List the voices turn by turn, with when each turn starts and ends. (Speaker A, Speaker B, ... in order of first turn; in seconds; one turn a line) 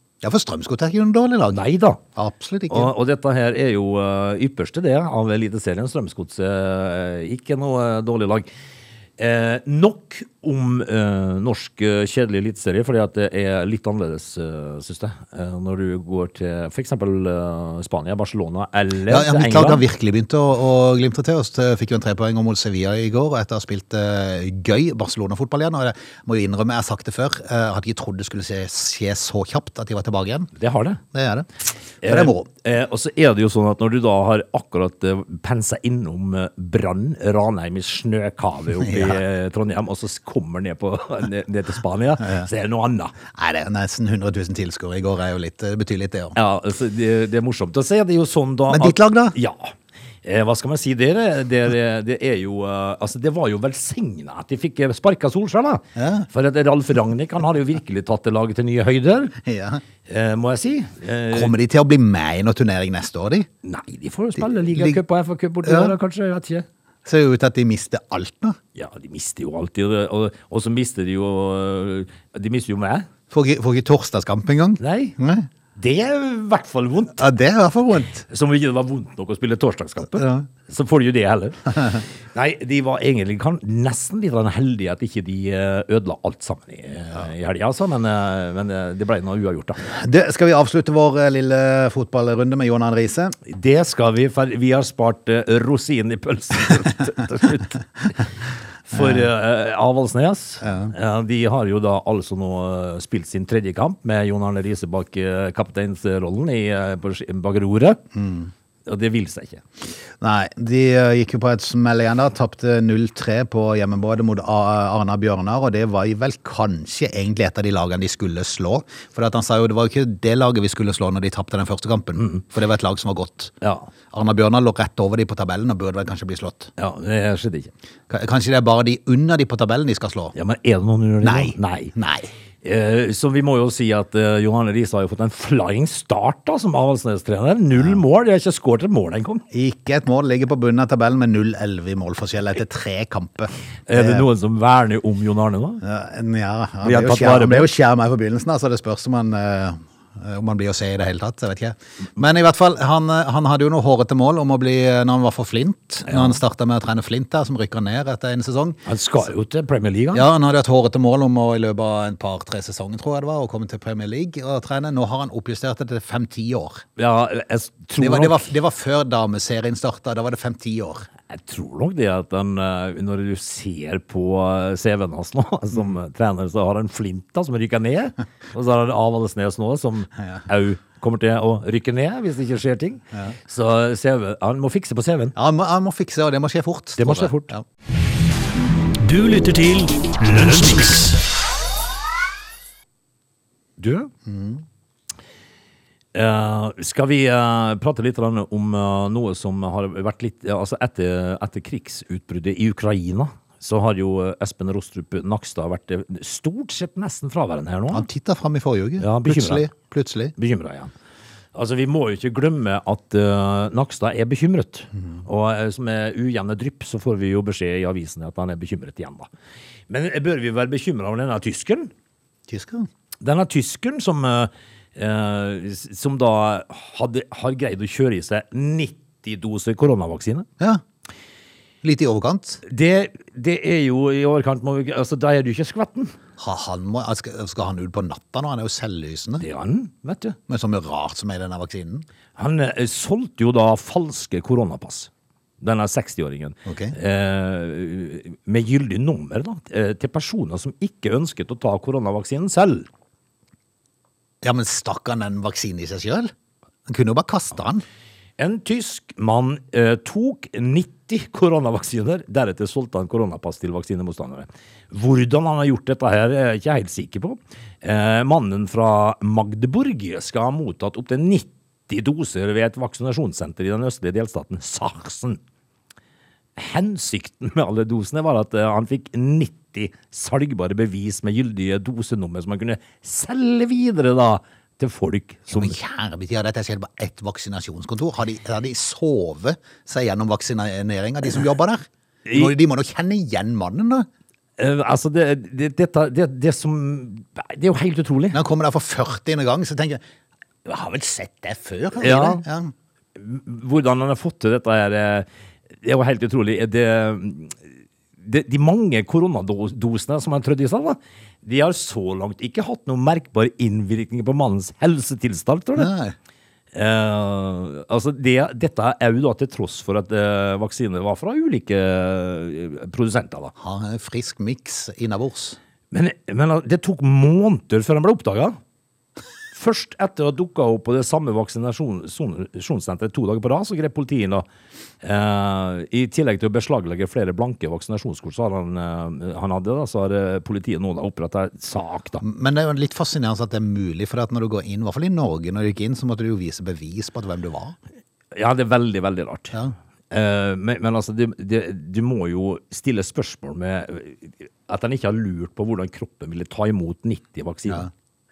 Speaker A: 0.2-1.6
Speaker B: 1.5-2.0
Speaker A: 2.1-2.9
Speaker B: 2.7-8.5
Speaker B: 9.2-19.8
Speaker A: 19.1-30.5
Speaker B: 30.6-31.0
Speaker A: 31.1-31.5
Speaker A: 32.0-32.5
Speaker B: 32.0-43.1
Speaker A: 38.8-39.2
Speaker A: 42.2-42.5
Speaker A: 43.3-46.4
Speaker B: 46.4-59.4
Speaker A: 48.7-49.4
Speaker A: 56.0-56.3
Speaker A: 59.4-59.8
Speaker B: 60.1-61.6
Speaker A: 61.3-63.5
Speaker B: 63.6-66.7
Speaker A: 64.6-65.0
Speaker A: 65.7-66.0
Speaker A: 67.0-68.6
Speaker B: 68.8-73.1
Speaker A: 73.3-75.5
Speaker B: 74.8-75.2
Speaker B: 75.8-77.2
Speaker A: 77.2-78.2
Speaker B: 78.2-89.8
Speaker A: 80.2-80.5
Speaker A: 89.8-93.4
Speaker B: 93.5-98.3
Speaker B: 98.9-108.0
Speaker A: 99.0-99.2
Speaker A: 100.6-100.9
Speaker A: 108.2-108.5
Speaker B: 108.8-109.6
Speaker A: 110.2-123.5
Speaker B: 123.6-123.9
Speaker A: 124.1-126.7
Speaker B: 126.8-127.7
Speaker A: 128.1-130.3
Speaker B: 130.3-131.9
Speaker A: 131.2-132.3
Speaker B: 132.6-139.4
Speaker A: 139.5-144.2
Speaker B: 143.9-145.8
Speaker A: 145.8-158.8
Speaker B: 146.8-147.7
Speaker B: 156.1-156.4
Speaker B: 158.9-160.2
Speaker A: 160.1-166.8
Speaker B: 167.0-168.5
Speaker A: 168.0-171.1
Speaker B: 171.3-185.3
Speaker A: 185.4-187.6
Speaker B: 187.0-187.5
Speaker C: 189.0-191.2
Speaker B: 193.8-194.1
Speaker A: 194.3-194.6
Speaker B: 196.1-208.1
Speaker A: 207.9-210.3
Speaker B: 209.0-209.7
Speaker B: 210.4-210.9
Speaker B: 211.5-219.3
Speaker B: 219.9-221.9
Speaker A: 222.5-222.9
Speaker B: 223.2-230.5
Speaker A: 231.8-232.6
Speaker B: 232.7-236.2
Speaker A: 236.4-239.4
Speaker B: 239.4-240.4
Speaker A: 240.5-242.1
Speaker B: 242.4-245.1
Speaker B: 245.6-252.9
Speaker A: 246.7-246.9
Speaker A: 254.4-256.3
Speaker A: 256.9-257.8
Speaker B: 258.4-275.4
Speaker B: 276.6-285.8
Speaker A: 285.5-294.1
Speaker B: 292.3-292.5
Speaker B: 294.6-298.4
Speaker A: 298.3-300.0
Speaker A: 300.7-302.7
Speaker B: 302.0-302.4
Speaker B: 303.1-305.3
Speaker B: 305.8-307.6
Speaker B: 308.2-315.9
Speaker A: 315.8-316.1
Speaker B: 316.7-323.5
Speaker A: 323.6-325.6
Speaker B: 325.9-328.6
Speaker B: 329.5-334.5
Speaker B: 335.0-342.2
Speaker A: 342.2-347.8
Speaker B: 348.3-349.6
Speaker B: 350.1-357.9